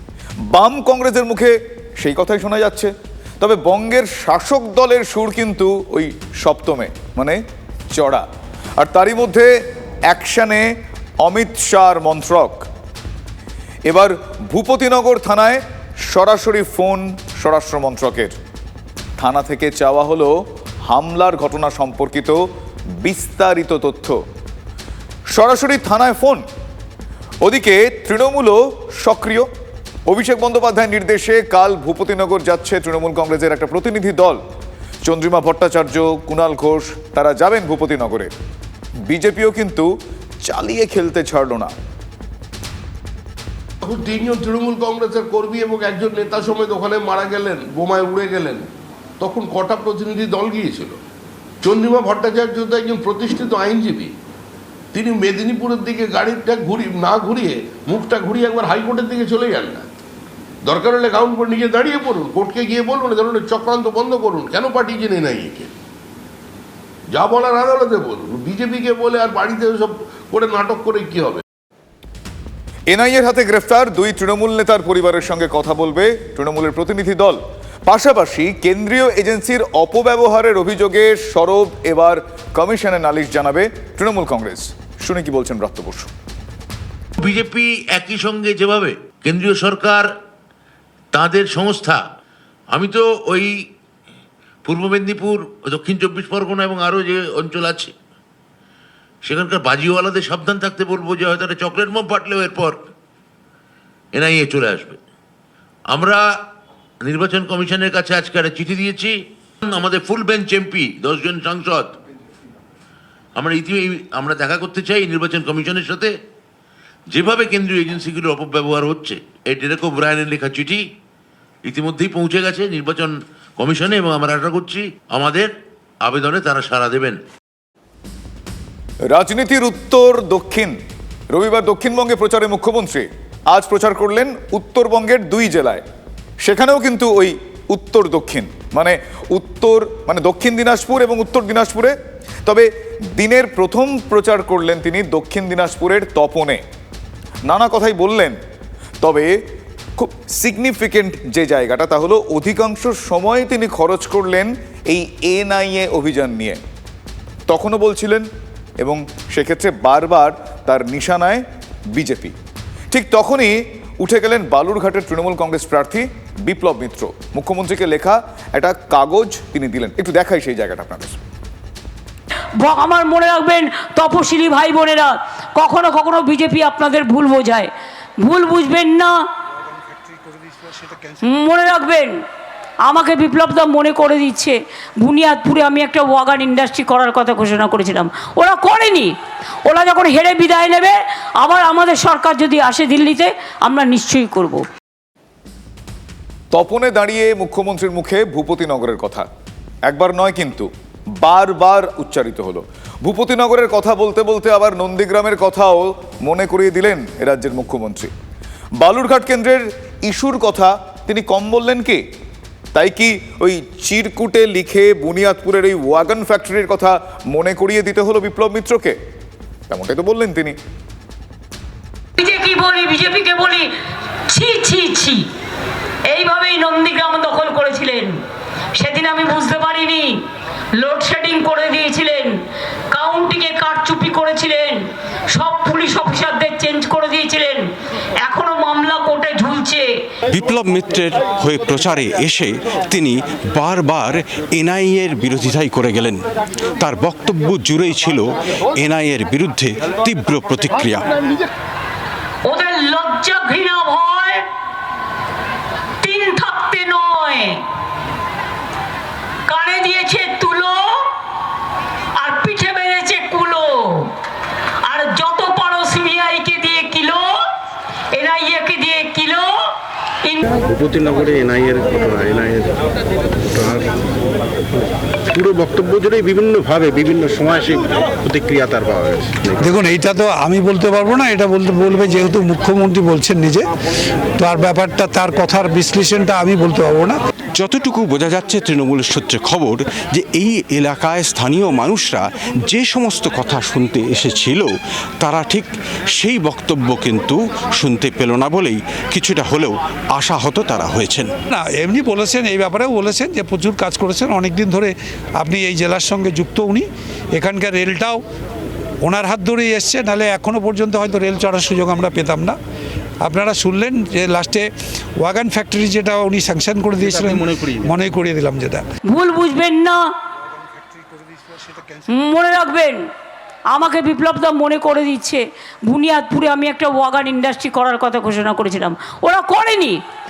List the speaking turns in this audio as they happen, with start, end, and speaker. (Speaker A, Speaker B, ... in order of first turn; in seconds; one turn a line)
Speaker A: 0.5-8.3
Speaker A: 8.8-9.5
Speaker A: 10.1-10.7
Speaker A: 11.2-12.7
Speaker A: 13.9-18.4
Speaker A: 19.2-22.5
Speaker A: 23.0-24.2
Speaker A: 25.3-26.4
Speaker A: 27.4-29.5
Speaker A: 30.1-34.4
Speaker A: 35.0-38.3
Speaker A: 39.1-39.9
Speaker A: 40.4-41.7
Speaker B: 43.8-48.7
Speaker B: 49.2-51.0
Speaker B: 51.6-54.1
Speaker B: 54.9-59.9
Speaker B: 60.7-65.7
Speaker B: 67.1-71.4
Speaker A: 72.9-86.1
Speaker C: 87.2-90.1
Speaker C: 91.1-92.0
Speaker C: 92.7-93.5
Speaker C: 94.7-97.9
Speaker C: 99.2-102.8
Speaker C: 104.1-105.0
Speaker C: 105.9-106.2
Speaker C: 107.0-111.9
Speaker C: 113.4-116.1
Speaker C: 117.1-120.8
Speaker C: 121.7-125.5
Speaker C: 126.0-127.2
Speaker A: 129.1-130.8
Speaker A: 131.3-135.8
Speaker A: 136.4-146.6
Speaker A: 147.5-148.4
Speaker A: 149.0-149.4
Speaker A: 150.0-156.6
Speaker A: 157.5-158.3
Speaker A: 158.8-162.3
Speaker A: 162.9-171.2
Speaker D: 172.6-179.2
Speaker D: 181.2-182.2
Speaker D: 182.9-189.2
Speaker D: 189.7-194.7
Speaker A: 196.5-199.3
Speaker A: 199.9-208.1
Speaker A: 208.8-212.0
Speaker A: 212.7-219.0
Speaker A: 219.7-220.6
Speaker D: 222.2-223.7
Speaker D: 224.3-225.3
Speaker D: 226.1-228.2
Speaker D: 228.8-230.2
Speaker D: 230.8-232.4
Speaker D: 232.9-237.7
Speaker D: 238.2-239.9
Speaker E: 240.3-246.2
Speaker E: 246.8-251.1
Speaker D: 252.5-254.4
Speaker D: 256.0-257.6
Speaker D: 259.5-261.1
Speaker D: 262.2-264.1
Speaker D: 264.9-267.4
Speaker D: 268.1-270.4
Speaker F: 270.6-272.8
Speaker F: 273.5-273.8
Speaker F: 275.3-279.7
Speaker G: 279.6-283.7
Speaker G: 284.4-287.2
Speaker E: 287.6-301.3
Speaker G: 301.5-308.2
Speaker G: 309.0-312.6
Speaker G: 313.2-314.7
Speaker G: 315.2-318.8
Speaker F: 317.0-317.8
Speaker D: 319.1-320.1
Speaker D: 322.1-323.1
Speaker D: 323.7-330.0